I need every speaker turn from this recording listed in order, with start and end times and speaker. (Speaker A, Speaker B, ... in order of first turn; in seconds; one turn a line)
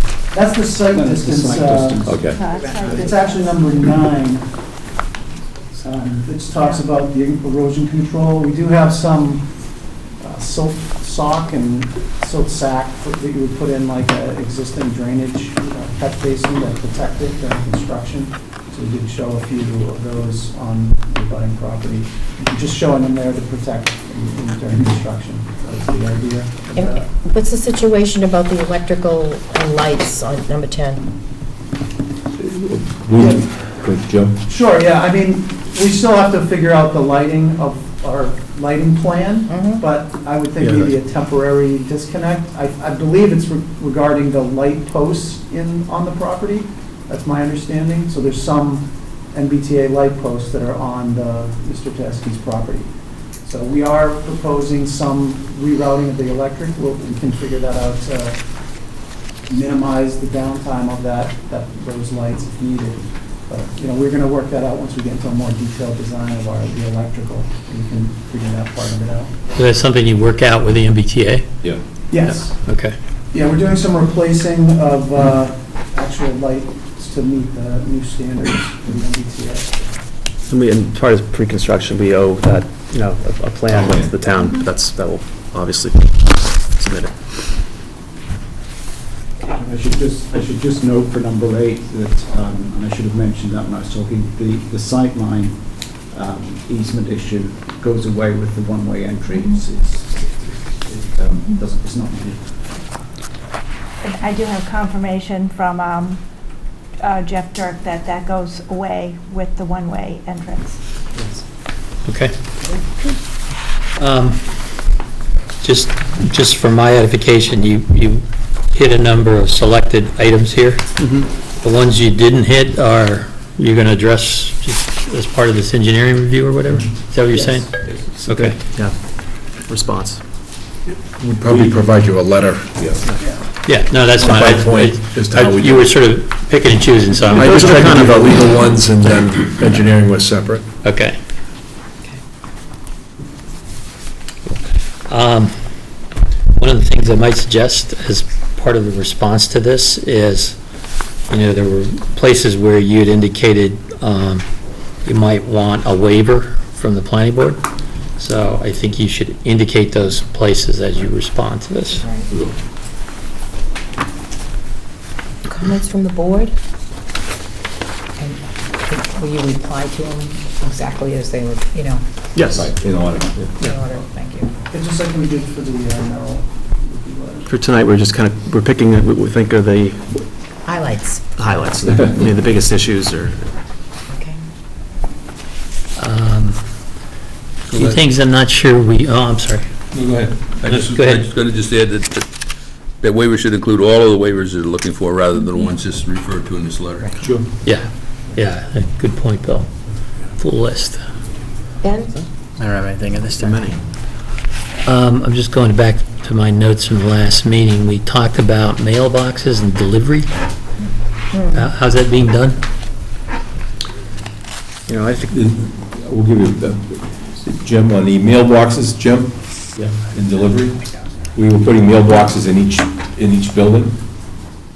Speaker A: 0.3-2.1
Speaker B: 0.9-3.1
Speaker C: 2.0-2.4
Speaker D: 2.3-3.3
Speaker A: 2.9-4.6
Speaker A: 5.8-9.5
Speaker A: 10.2-27.1
Speaker E: 26.7-31.0
Speaker C: 32.4-34.4
Speaker A: 34.4-52.9
Speaker E: 39.5-39.9
Speaker F: 40.6-40.9
Speaker A: 53.4-58.4
Speaker A: 59.5-69.3
Speaker G: 69.5-71.5
Speaker A: 72.1-72.5
Speaker G: 72.7-72.9
Speaker A: 73.3-79.8
Speaker F: 80.5-87.3
Speaker C: 83.7-84.1
Speaker B: 89.5-103.0
Speaker D: 104.0-106.2
Speaker D: 107.0-110.8
Speaker G: 112.0-112.3
Speaker G: 114.0-114.5
Speaker G: 115.6-120.9
Speaker F: 121.0-121.3
Speaker G: 121.6-128.6
Speaker F: 128.2-130.2
Speaker H: 131.2-132.7
Speaker C: 131.4-131.8
Speaker G: 133.6-137.7
Speaker C: 134.2-135.0
Speaker H: 135.1-135.8
Speaker F: 137.3-139.4
Speaker H: 138.3-140.5
Speaker G: 140.8-141.2
Speaker G: 145.1-145.5
Speaker G: 146.6-150.6
Speaker G: 151.3-154.4
Speaker G: 155.0-157.6
Speaker G: 158.2-162.1
Speaker I: 162.0-162.2
Speaker C: 162.3-162.6
Speaker E: 165.4-166.5
Speaker I: 168.2-172.0
Speaker F: 172.3-172.7
Speaker C: 172.5-173.5
Speaker I: 173.6-174.5
Speaker A: 174.7-177.5
Speaker F: 177.4-180.3
Speaker I: 180.6-181.2
Speaker F: 181.4-183.5
Speaker I: 184.1-184.4
Speaker G: 185.9-186.6
Speaker J: 187.7-188.0
Speaker G: 187.7-189.7
Speaker J: 189.9-192.3
Speaker G: 190.6-191.3
Speaker J: 192.9-197.3
Speaker G: 197.6-199.7
Speaker G: 200.3-201.0
Speaker E: 201.8-202.1
Speaker F: 202.2-203.8
Speaker G: 204.8-210.3
Speaker E: 211.3-211.7
Speaker G: 211.5-212.6
Speaker F: 214.9-215.3
Speaker C: 215.3-224.1